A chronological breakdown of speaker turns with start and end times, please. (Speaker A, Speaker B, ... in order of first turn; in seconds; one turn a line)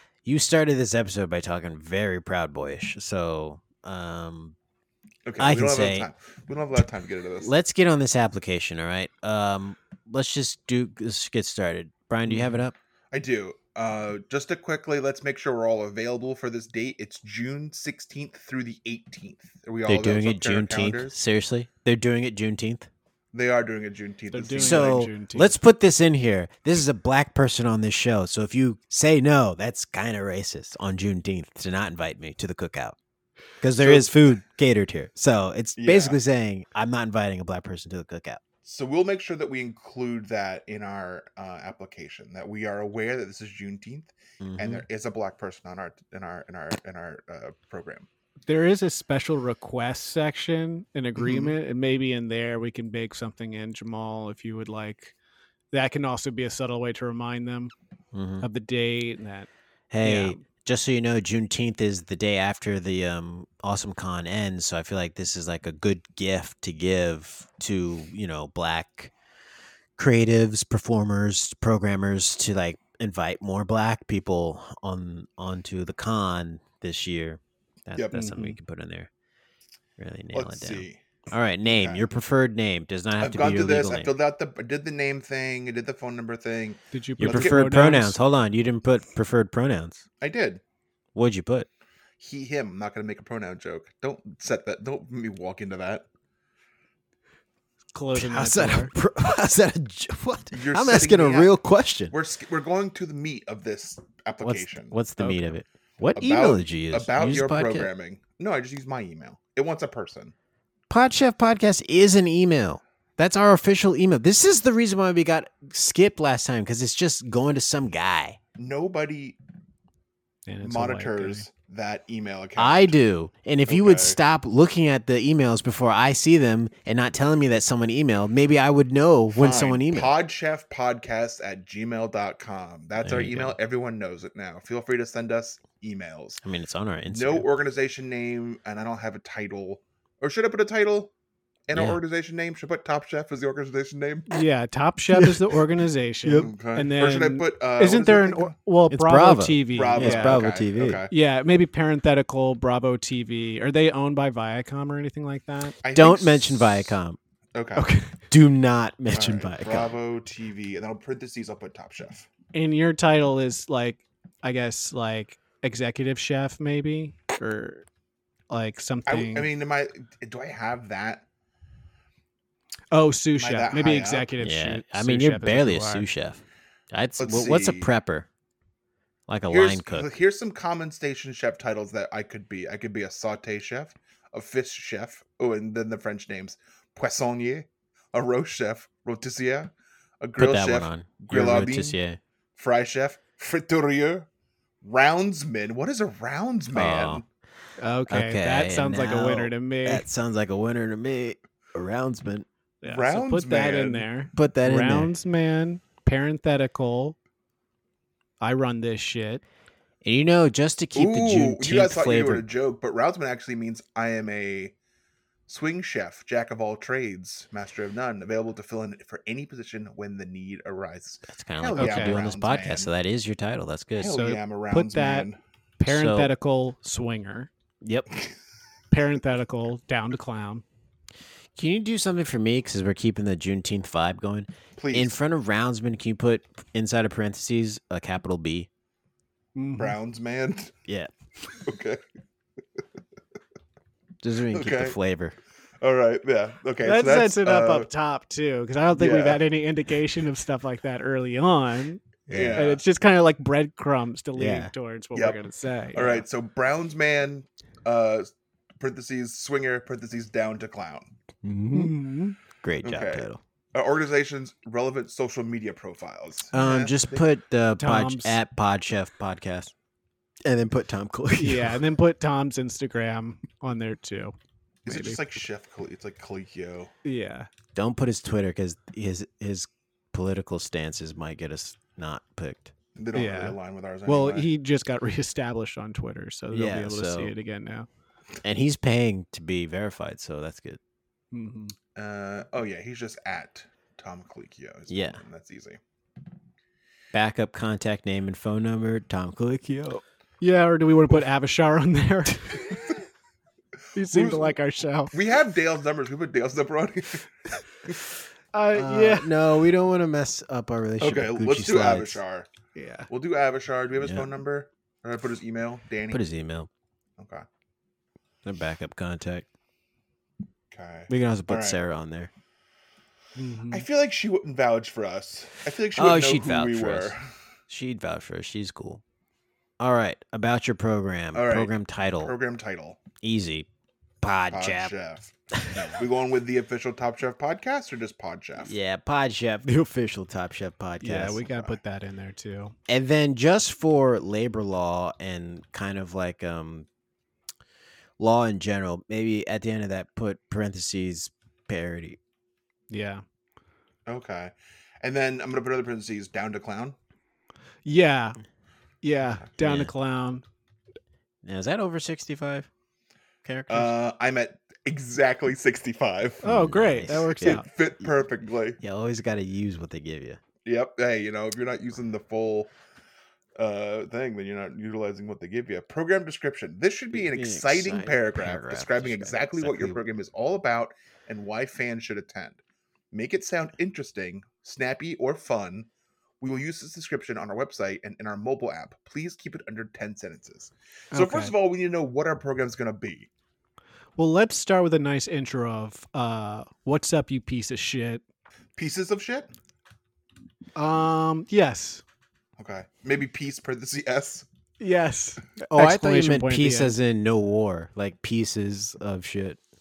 Speaker A: 0.2-4.5
Speaker B: 5.2-7.5
Speaker A: 5.4-6.1
Speaker A: 7.4-12.8
Speaker C: 12.3-12.6
Speaker B: 13.1-21.1
Speaker A: 19.9-22.9
Speaker B: 23.3-25.1
Speaker C: 24.3-25.6
Speaker A: 24.5-33.0
Speaker A: 33.6-38.4
Speaker B: 33.8-34.4
Speaker B: 35.8-36.2
Speaker B: 38.6-48.1
Speaker A: 44.4-44.8
Speaker C: 48.5-55.1
Speaker B: 51.2-51.5
Speaker C: 55.7-57.7
Speaker A: 58.1-58.5
Speaker C: 58.4-59.5
Speaker A: 59.9-69.1
Speaker C: 60.0-60.4
Speaker A: 70.0-79.1
Speaker C: 78.1-78.6
Speaker A: 80.0-84.2
Speaker B: 80.3-81.0
Speaker B: 81.7-82.0
Speaker B: 83.2-87.7
Speaker C: 86.9-88.2
Speaker A: 87.2-90.0
Speaker B: 90.2-90.6
Speaker A: 91.1-91.7
Speaker B: 92.2-96.0
Speaker C: 97.9-98.9
Speaker A: 98.1-102.1
Speaker B: 100.5-101.5
Speaker B: 102.1-105.0
Speaker A: 104.4-107.9
Speaker C: 105.2-105.5
Speaker B: 106.0-110.3
Speaker A: 110.9-118.4
Speaker B: 118.6-119.4
Speaker C: 120.5-121.4
Speaker B: 120.6-123.0
Speaker A: 122.6-130.1
Speaker B: 123.7-124.2
Speaker B: 129.3-136.4
Speaker A: 133.0-133.6
Speaker A: 136.4-137.5
Speaker B: 137.1-141.1
Speaker B: 141.7-144.3
Speaker A: 141.7-142.0
Speaker C: 144.3-150.5
Speaker A: 145.1-145.4
Speaker A: 146.2-146.5
Speaker B: 146.3-148.5
Speaker A: 148.9-151.1
Speaker B: 149.7-151.1
Speaker C: 151.1-155.7
Speaker B: 155.8-156.9
Speaker A: 155.8-157.2
Speaker B: 157.5-157.9
Speaker C: 157.8-158.1
Speaker A: 158.1-159.9
Speaker B: 159.1-162.3
Speaker C: 162.5-167.8
Speaker C: 168.5-169.5
Speaker B: 169.1-171.2
Speaker C: 172.9-176.1
Speaker B: 173.3-174.3
Speaker A: 174.4-178.3
Speaker B: 177.2-177.9
Speaker A: 179.3-180.1
Speaker B: 179.5-192.0
Speaker A: 190.4-192.2
Speaker B: 192.6-194.3
Speaker B: 194.8-197.2
Speaker A: 196.7-197.2
Speaker C: 197.8-200.1
Speaker A: 198.1-202.4
Speaker C: 202.8-207.2
Speaker B: 202.8-204.1
Speaker A: 204.3-205.1
Speaker C: 208.4-209.4
Speaker A: 210.0-212.5
Speaker B: 210.9-214.7
Speaker B: 215.5-222.9
Speaker A: 221.3-224.2
Speaker C: 221.7-222.2
Speaker B: 224.0-225.4
Speaker C: 224.1-227.5
Speaker A: 225.8-226.3
Speaker A: 227.8-228.1
Speaker C: 228.9-230.6
Speaker A: 231.5-238.7
Speaker B: 234.8-235.2
Speaker C: 239.6-240.0
Speaker B: 239.8-240.7
Speaker A: 240.9-241.1
Speaker B: 241.7-242.0
Speaker A: 244.2-245.3
Speaker B: 244.5-244.9
Speaker B: 245.8-247.9
Speaker C: 246.8-256.2
Speaker B: 248.9-249.4
Speaker A: 252.3-252.6
Speaker B: 252.3-252.8
Speaker A: 254.3-254.7
Speaker B: 255.1-255.4
Speaker B: 255.9-261.1
Speaker A: 261.4-262.0
Speaker C: 261.7-262.4
Speaker A: 262.6-263.4
Speaker B: 262.8-267.2
Speaker A: 266.5-269.7
Speaker C: 267.8-268.4
Speaker A: 270.4-271.8
Speaker C: 271.4-274.4
Speaker B: 274.8-276.9
Speaker C: 274.9-275.2
Speaker C: 277.0-277.5
Speaker A: 277.7-282.7
Speaker B: 282.9-284.5
Speaker C: 283.1-287.9
Speaker A: 286.5-287.3
Speaker A: 288.4-290.8
Speaker C: 291.3-291.8
Speaker B: 291.9-295.8
Speaker A: 294.9-295.2
Speaker A: 297.1-300.0
Speaker C: 300.4-302.8
Speaker C: 303.9-305.1
Speaker B: 304.0-304.6
Speaker B: 305.1-307.3
Speaker C: 308.5-309.3
Speaker A: 308.7-312.2
Speaker B: 311.0-312.5
Speaker C: 312.7-313.1
Speaker B: 313.1-316.2
Speaker A: 314.0-314.3
Speaker A: 316.1-316.7
Speaker B: 317.2-317.4
Speaker A: 318.4-319.4
Speaker B: 320.7-321.8
Speaker A: 321.1-322.3
Speaker C: 323.4-323.8
Speaker B: 323.7-327.2
Speaker A: 325.9-327.1
Speaker A: 327.7-329.0
Speaker A: 329.8-332.4
Speaker B: 331.3-333.0
Speaker A: 333.2-333.7
Speaker A: 334.2-334.9
Speaker B: 334.5-335.3
Speaker A: 335.5-336.0
Speaker B: 335.9-338.8
Speaker A: 338.6-341.4
Speaker C: 341.0-342.7
Speaker B: 341.5-341.7
Speaker A: 342.9-346.9
Speaker A: 348.2-352.2
Speaker C: 352.9-353.2
Speaker B: 354.1-356.9
Speaker C: 357.8-358.4
Speaker C: 359.0-360.4
Speaker A: 359.6-359.9
Speaker A: 361.4-362.7
Speaker A: 363.4-363.9
Speaker B: 363.7-366.5
Speaker C: 366.4-367.7
Speaker A: 366.4-370.4
Speaker B: 367.1-368.8
Speaker B: 370.6-372.7
Speaker B: 373.6-382.6
Speaker A: 377.1-380.0
Speaker B: 383.1-385.9
Speaker B: 386.4-393.3
Speaker C: 391.1-391.5
Speaker C: 394.2-398.2
Speaker B: 398.8-399.5
Speaker C: 400.8-402.0
Speaker B: 402.6-404.4
Speaker C: 404.8-406.9
Speaker A: 405.7-409.6